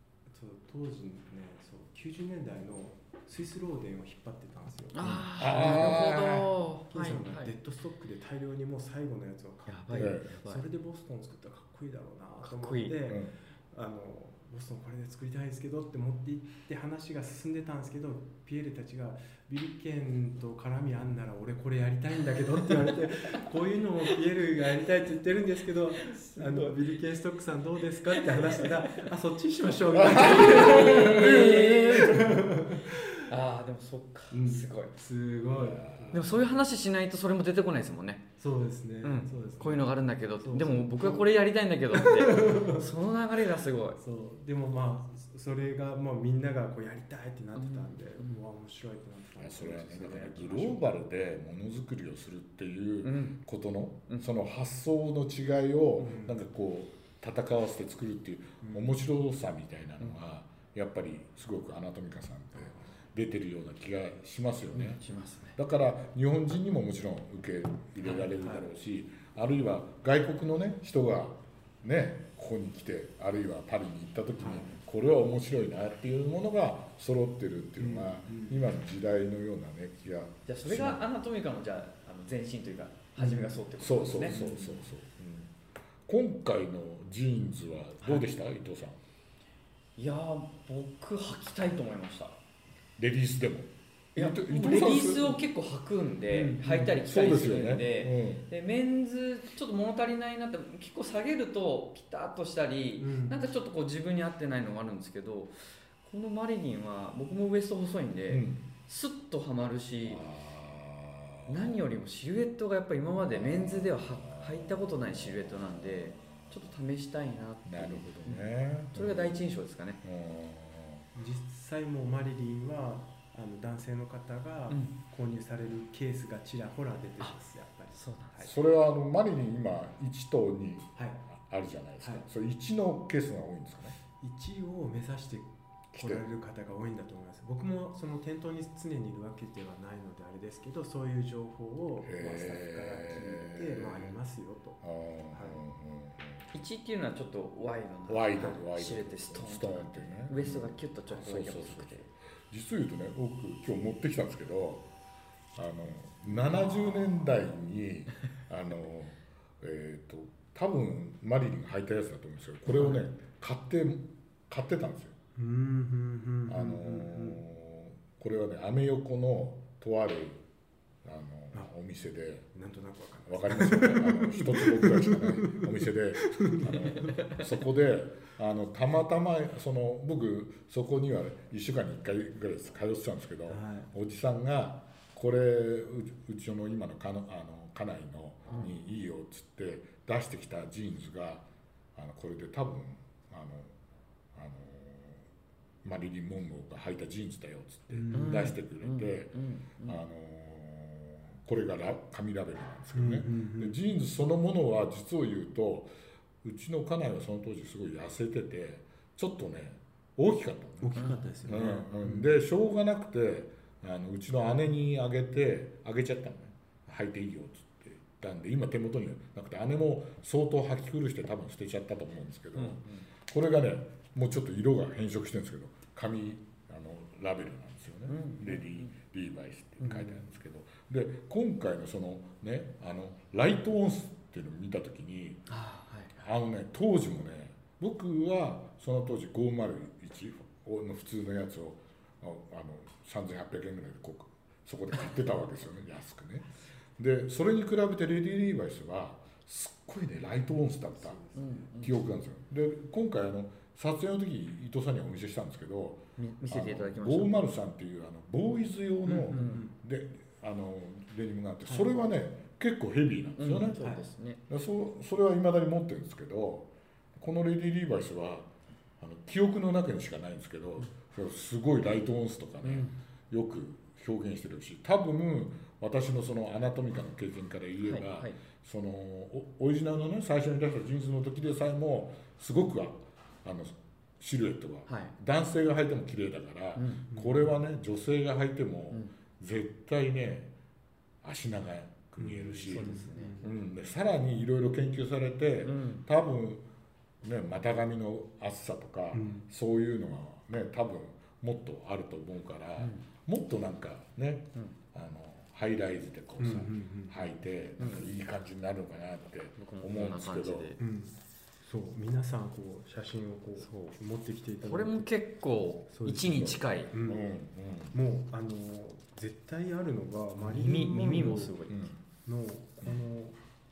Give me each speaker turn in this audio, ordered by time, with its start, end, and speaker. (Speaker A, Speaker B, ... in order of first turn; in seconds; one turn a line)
Speaker A: 0.3-6.1
Speaker B: 4.9-7.5
Speaker C: 5.0-6.5
Speaker A: 6.9-33.0
Speaker B: 9.7-10.6
Speaker C: 9.9-10.3
Speaker B: 12.4-12.9
Speaker B: 26.0-26.9
Speaker B: 28.1-29.1
Speaker C: 29.9-32.4
Speaker B: 29.9-34.9
Speaker A: 34.3-36.6
Speaker C: 35.5-36.3
Speaker B: 36.1-38.2
Speaker A: 38.4-41.3
Speaker B: 39.0-44.0
Speaker A: 41.9-42.9
Speaker A: 44.0-50.9
Speaker B: 47.5-48.4
Speaker C: 49.4-65.0
Speaker B: 53.0-53.4
Speaker A: 56.0-56.4
Speaker A: 58.6-58.9
Speaker A: 62.5-62.8
Speaker B: 64.7-65.6
Speaker C: 65.5-81.0
Speaker A: 68.0-68.7
Speaker A: 74.4-74.7
Speaker A: 77.8-78.6
Speaker B: 80.5-84.4
Speaker A: 83.2-83.6
Speaker C: 83.8-85.5
Speaker A: 84.2-84.8
Speaker C: 86.1-89.0
Speaker B: 90.0-92.4
Speaker C: 93.0-95.4
Speaker B: 94.2-110.2
Speaker A: 96.3-97.1
Speaker C: 97.0-98.5
Speaker A: 103.0-103.4
Speaker C: 108.3-108.6
Speaker C: 110.0-111.8
Speaker B: 111.5-120.0
Speaker C: 113.2-114.8
Speaker C: 117.7-119.5
Speaker C: 120.0-121.1
Speaker A: 121.1-128.5
Speaker B: 127.9-128.5
Speaker C: 128.4-133.9
Speaker A: 130.9-131.2
Speaker A: 132.0-132.2
Speaker A: 134.2-144.8
Speaker C: 135.9-136.2
Speaker C: 142.0-144.1
Speaker C: 144.8-146.6
Speaker A: 145.3-145.6
Speaker B: 146.5-152.1
Speaker C: 148.1-154.9
Speaker C: 155.5-165.1
Speaker A: 162.7-163.0
Speaker A: 165.3-167.4
Speaker C: 166.5-170.4
Speaker C: 171.0-172.5
Speaker A: 172.5-177.3
Speaker C: 173.2-193.7
Speaker B: 177.1-177.4
Speaker A: 183.5-183.9
Speaker C: 194.3-195.2
Speaker C: 195.8-205.9
Speaker A: 197.9-198.5
Speaker B: 198.1-200.0
Speaker A: 202.9-203.8
Speaker C: 206.4-235.4
Speaker A: 210.8-212.3
Speaker B: 210.9-211.2
Speaker B: 222.5-223.1
Speaker B: 228.1-228.9
Speaker B: 229.8-230.2
Speaker B: 235.5-236.3
Speaker C: 236.2-246.4
Speaker C: 247.0-251.2
Speaker A: 250.9-251.7
Speaker B: 251.3-252.1
Speaker C: 251.8-263.8
Speaker B: 256.2-257.4
Speaker A: 259.0-259.7
Speaker B: 259.3-259.6
Speaker A: 261.6-261.9
Speaker B: 263.4-264.4
Speaker A: 263.8-264.0
Speaker C: 264.5-290.5
Speaker B: 272.6-272.9
Speaker B: 277.8-278.4
Speaker B: 284.9-285.1
Speaker B: 286.8-287.0
Speaker A: 287.1-287.5
Speaker C: 291.2-296.6
Speaker A: 292.2-293.5
Speaker B: 292.7-293.4
Speaker B: 295.6-296.0
Speaker C: 297.2-310.7
Speaker A: 299.1-299.4
Speaker B: 302.8-303.0
Speaker A: 306.4-307.3
Speaker B: 307.8-308.2
Speaker B: 309.6-310.8
Speaker A: 310.8-311.1
Speaker A: 311.6-315.1
Speaker B: 313.6-313.9
Speaker B: 314.6-316.9
Speaker A: 315.9-317.2
Speaker C: 316.2-317.9
Speaker A: 317.9-321.6
Speaker B: 320.5-321.9
Speaker C: 321.7-322.0
Speaker A: 322.2-323.4